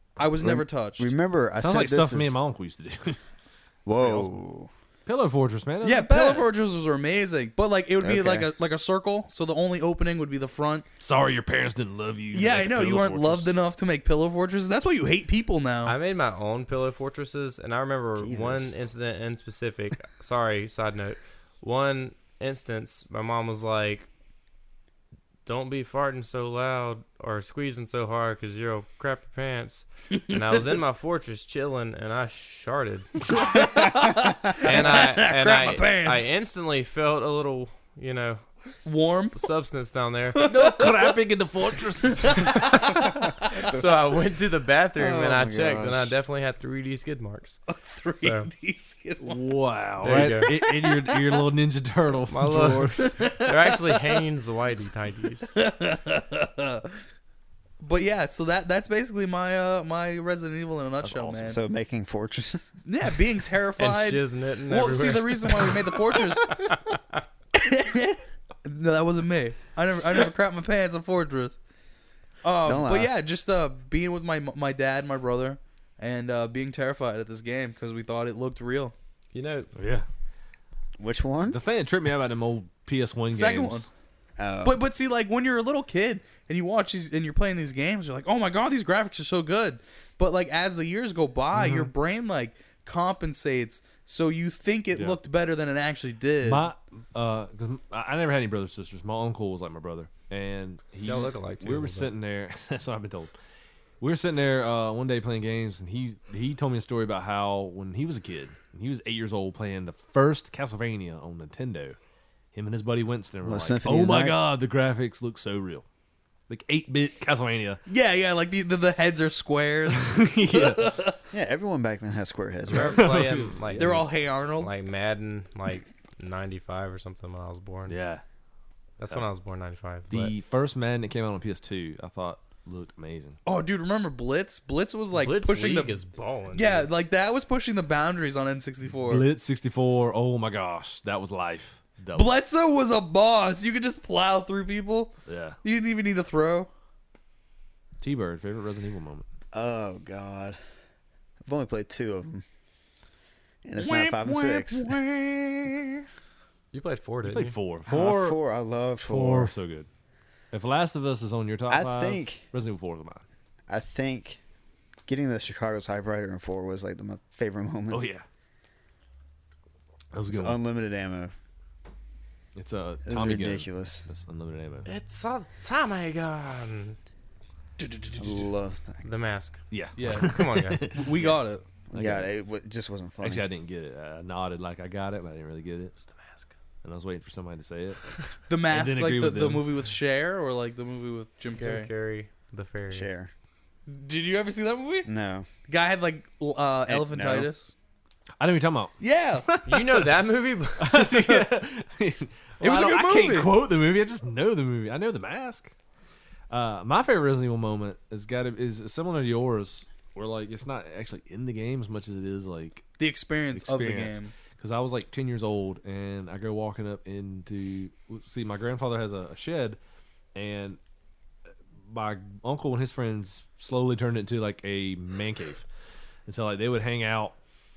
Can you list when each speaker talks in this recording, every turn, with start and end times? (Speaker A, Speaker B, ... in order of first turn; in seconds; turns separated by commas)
Speaker A: 0.2-1.1, Speaker B: 0.4-2.4, Speaker C: 1.6-3.2, Speaker B: 3.9-4.7, Speaker C: 3.9-4.3, Speaker C: 5.1-6.5, Speaker A: 5.8-10.8, Speaker B: 8.0-8.5, Speaker C: 11.0-13.6, Speaker A: 12.3-16.0, Speaker D: 15.8-24.1, Speaker B: 18.2-18.8, Speaker D: 25.4-33.2, Speaker A: 30.2-30.7, Speaker A: 33.3-36.3, Speaker D: 34.6-38.5, Speaker A: 38.9-39.5, Speaker D: 39.4-40.5, Speaker A: 40.4-41.2, Speaker C: 40.4-42.8, Speaker A: 42.2-42.7, Speaker D: 43.5-47.6, Speaker B: 45.0-46.1, Speaker A: 47.7-49.5, Speaker D: 48.1-48.5, Speaker C: 49.2-53.2, Speaker D: 50.0-50.5, Speaker A: 50.0-51.4, Speaker D: 52.3-55.6, Speaker A: 53.0-53.9, Speaker A: 55.5-56.9, Speaker A: 57.8-61.6, Speaker C: 61.0-61.5, Speaker B: 61.4-62.8, Speaker A: 62.9-66.7, Speaker D: 63.8-65.8, Speaker D: 66.6-67.0, Speaker A: 67.5-71.6, Speaker A: 72.4-78.9, Speaker B: 72.6-73.1, Speaker D: 79.3-79.7, Speaker C: 79.8-80.1, Speaker B: 81.0-81.6, Speaker C: 81.5-83.9, Speaker A: 83.3-83.9, Speaker B: 84.4-84.8, Speaker A: 84.6-96.7, Speaker C: 91.5-91.9, Speaker C: 96.4-103.3, Speaker D: 101.0-102.1, Speaker C: 104.0-112.0, Speaker C: 112.5-115.8, Speaker B: 113.4-114.4, Speaker C: 116.5-117.8, Speaker A: 117.9-121.2, Speaker C: 119.9-120.9, Speaker B: 121.3-123.2, Speaker C: 122.7-124.1, Speaker D: 122.7-128.0, Speaker A: 123.8-124.7, Speaker C: 127.9-128.2, Speaker D: 129.0-130.3, Speaker C: 130.1-133.4, Speaker A: 133.4-136.0, Speaker D: 135.1-136.9, Speaker A: 136.5-139.2, Speaker C: 139.1-142.3, Speaker A: 142.1-146.7, Speaker C: 145.3-145.6, Speaker C: 148.0-149.3, Speaker B: 149.5-150.6, Speaker B: 151.4-152.4, Speaker B: 153.7-154.9, Speaker A: 153.8-156.0, Speaker D: 156.7-157.6, Speaker C: 157.2-158.4, Speaker B: 157.9-159.5, Speaker C: 159.0-159.9, Speaker C: 160.5-163.2, Speaker B: 161.7-162.4, Speaker B: 163.7-164.4, Speaker B: 165.1-168.1, Speaker C: 167.9-168.2, Speaker C: 170.1-170.6, Speaker B: 170.3-171.3, Speaker C: 172.6-174.9, Speaker B: 173.1-174.1, Speaker D: 174.9-177.0, Speaker A: 177.8-178.4, Speaker B: 178.2-179.1, Speaker D: 179.0-180.9, Speaker C: 179.7-181.2, Speaker A: 180.0-181.6, Speaker B: 181.9-183.4, Speaker C: 181.9-182.3, Speaker C: 183.2-186.1, Speaker D: 186.1-186.5, Speaker C: 186.8-189.7, Speaker A: 188.5-191.9, Speaker D: 191.6-193.1, Speaker B: 192.9-193.3, Speaker A: 193.9-195.1, Speaker B: 195.1-195.5, Speaker A: 195.7-197.7, Speaker B: 196.9-197.5, Speaker C: 198.4-200.1, Speaker A: 199.0-199.5, Speaker D: 199.7-201.0, Speaker C: 200.8-205.7, Speaker A: 202.6-203.5, Speaker C: 206.5-212.9, Speaker A: 213.0-214.3, Speaker C: 213.5-219.8, Speaker C: 220.3-220.8, Speaker C: 221.9-225.7, Speaker C: 226.3-227.4